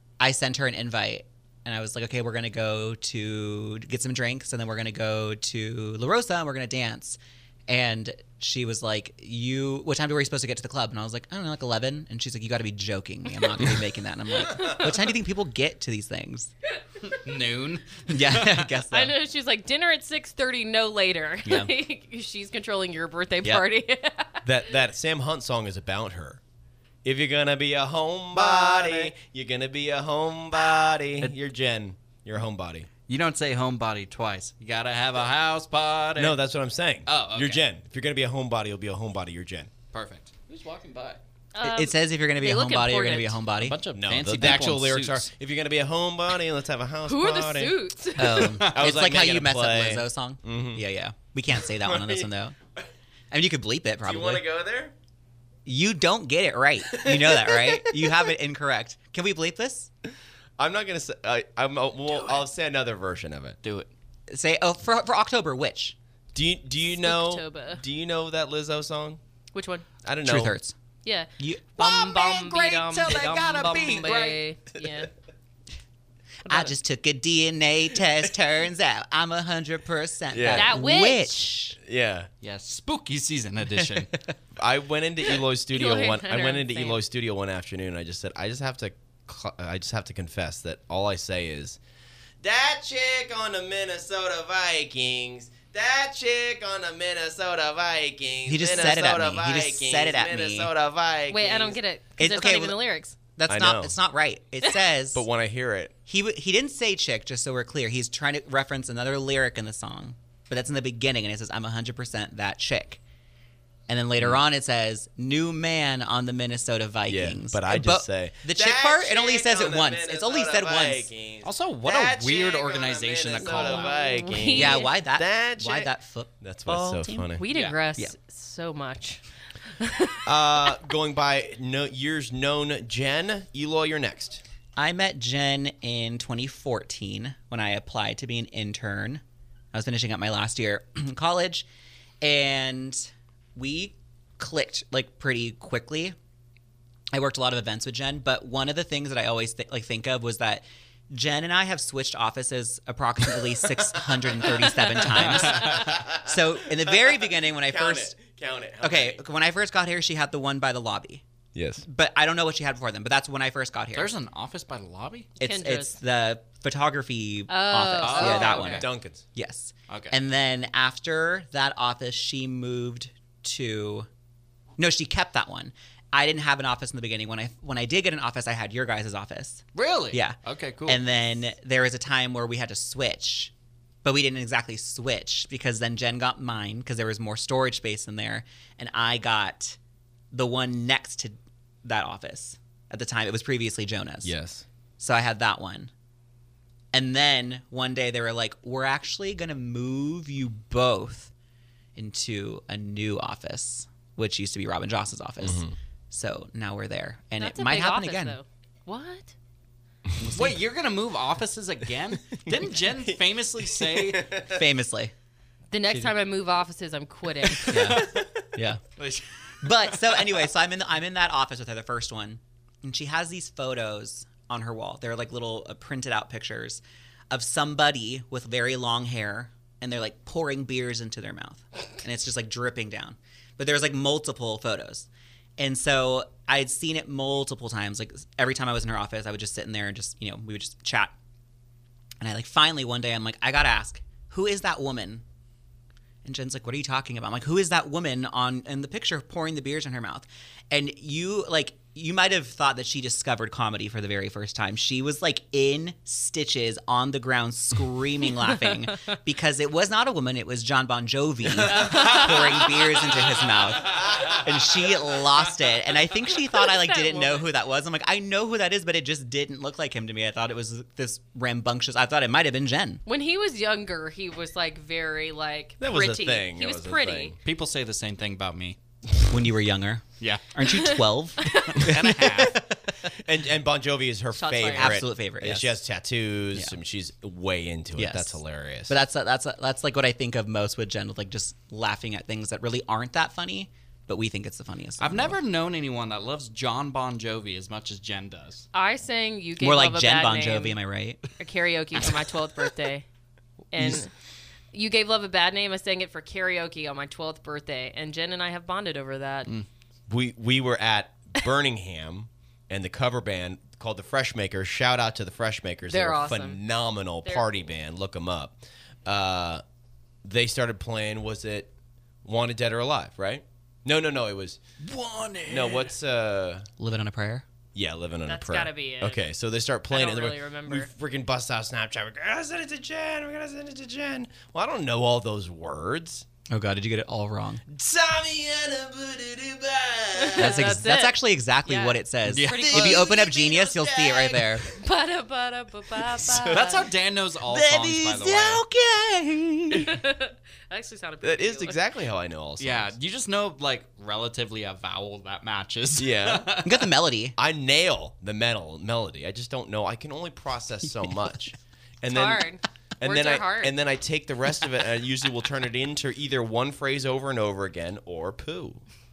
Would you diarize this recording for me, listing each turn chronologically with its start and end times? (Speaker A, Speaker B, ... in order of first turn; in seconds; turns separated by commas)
Speaker A: 0.2-16.5, Speaker B: 17.1-18.7, Speaker A: 18.1-19.1, Speaker C: 18.9-24.4, Speaker A: 21.4-21.7, Speaker D: 24.4-26.4, Speaker D: 27.0-32.9, Speaker B: 28.3-29.1, Speaker B: 33.1-36.4, Speaker D: 36.1-39.7, Speaker B: 37.0-37.6, Speaker B: 39.9-41.2, Speaker C: 41.5-43.4, Speaker A: 41.6-44.9, Speaker B: 43.6-45.3, Speaker D: 43.9-47.8, Speaker C: 47.0-48.6, Speaker A: 48.1-52.5, Speaker B: 48.3-48.8, Speaker D: 48.4-50.8, Speaker D: 51.7-52.3, Speaker A: 53.3-54.5, Speaker D: 54.0-54.9, Speaker A: 55.6-59.9, Speaker D: 56.9-57.8, Speaker D: 60.6-63.6, Speaker B: 63.6-63.9, Speaker A: 64.3-65.9, Speaker D: 66.3-69.2, Speaker C: 67.0-67.8, Speaker C: 69.5-69.8, Speaker D: 70.0-70.6, Speaker A: 70.2-70.7, Speaker C: 71.0-75.1, Speaker A: 71.4-71.8, Speaker B: 71.8-74.4, Speaker A: 76.5-81.8, Speaker C: 76.5-76.7, Speaker D: 80.3-80.8, Speaker C: 80.5-81.6, Speaker D: 81.8-82.3, Speaker B: 82.4-84.2, Speaker D: 84.5-91.8, Speaker C: 85.7-87.0, Speaker D: 92.4-101.8, Speaker A: 98.5-100.7, Speaker C: 101.3-103.1, Speaker A: 102.2-102.8, Speaker A: 103.3-105.2, Speaker D: 103.5-103.9, Speaker D: 105.1-105.9, Speaker A: 106.1-113.0, Speaker A: 113.9-121.1, Speaker D: 117.1-127.4, Speaker B: 121.4-123.9, Speaker C: 123.4-124.9, Speaker A: 124.5-127.3, Speaker C: 127.3-129.2, Speaker B: 127.5-127.8, Speaker C: 129.8-130.2, Speaker D: 130.2-134.4, Speaker A: 134.8-139.2, Speaker A: 139.7-141.6, Speaker A: 142.2-146.1, Speaker A: 147.1-158.1, Speaker B: 154.9-156.0, Speaker D: 155.8-159.2, Speaker A: 158.8-161.2, Speaker D: 161.5-161.8, Speaker A: 161.8-164.1, Speaker B: 163.9-165.3, Speaker C: 165.4-165.9, Speaker A: 165.4-174.1, Speaker C: 167.5-168.8, Speaker B: 168.0-168.9, Speaker D: 168.5-169.2, Speaker B: 169.9-170.1, Speaker A: 174.8-183.5, Speaker B: 179.7-181.0, Speaker A: 184.0-189.8, Speaker A: 190.3-194.3, Speaker D: 194.2-194.6, Speaker A: 195.0-195.9, Speaker A: 196.9-201.3, Speaker A: 201.9-208.4, Speaker D: 205.4-205.7, Speaker C: 207.4-209.3, Speaker A: 210.2-210.6, Speaker B: 210.3-214.3, Speaker D: 213.7-214.6, Speaker A: 214.4-215.1, Speaker C: 215.7-217.8, Speaker A: 217.7-218.8, Speaker B: 217.8-218.2, Speaker B: 219.0-220.3, Speaker A: 219.6-235.1, Speaker A: 235.6-241.1, Speaker A: 242.2-245.2, Speaker A: 246.2-273.0, Speaker B: 261.7-262.8, Speaker C: 261.9-262.2, Speaker C: 266.6-267.5, Speaker C: 273.1-277.4, Speaker D: 275.8-277.4, Speaker B: 277.4-278.8, Speaker A: 279.3-283.1, Speaker B: 280.2-280.9, Speaker C: 281.4-281.8, Speaker B: 281.6-282.6, Speaker D: 283.2-288.9, Speaker C: 284.3-285.0, Speaker A: 284.7-285.8, Speaker A: 287.9-295.4, Speaker B: 295.0-298.6, Speaker C: 298.7-300.8, Speaker A: 299.6-301.2, Speaker C: 301.4-303.1, Speaker C: 303.7-304.1, Speaker A: 303.8-304.0, Speaker C: 304.7-309.5, Speaker D: 310.1-319.6, Speaker C: 315.9-316.6, Speaker C: 317.2-317.6, Speaker D: 320.2-321.7, Speaker D: 322.2-324.6, Speaker B: 324.8-325.8, Speaker D: 325.5-326.7, Speaker A: 326.8-327.4, Speaker D: 327.7-336.2, Speaker C: 328.2-329.2, Speaker C: 329.9-330.9, Speaker A: 336.5-337.6, Speaker D: 337.7-340.7, Speaker C: 340.2-343.2, Speaker A: 340.4-344.6, Speaker B: 342.3-343.0, Speaker D: 342.5-344.7, Speaker C: 344.8-346.9, Speaker D: 346.1-346.7, Speaker B: 346.5-348.6, Speaker A: 347.4-350.0, Speaker C: 349.7-351.8, Speaker D: 351.2-352.9, Speaker B: 352.6-356.8, Speaker D: 356.0-356.6, Speaker A: 356.6-357.4, Speaker D: 357.4-362.5, Speaker C: 362.1-363.7, Speaker D: 363.0-368.8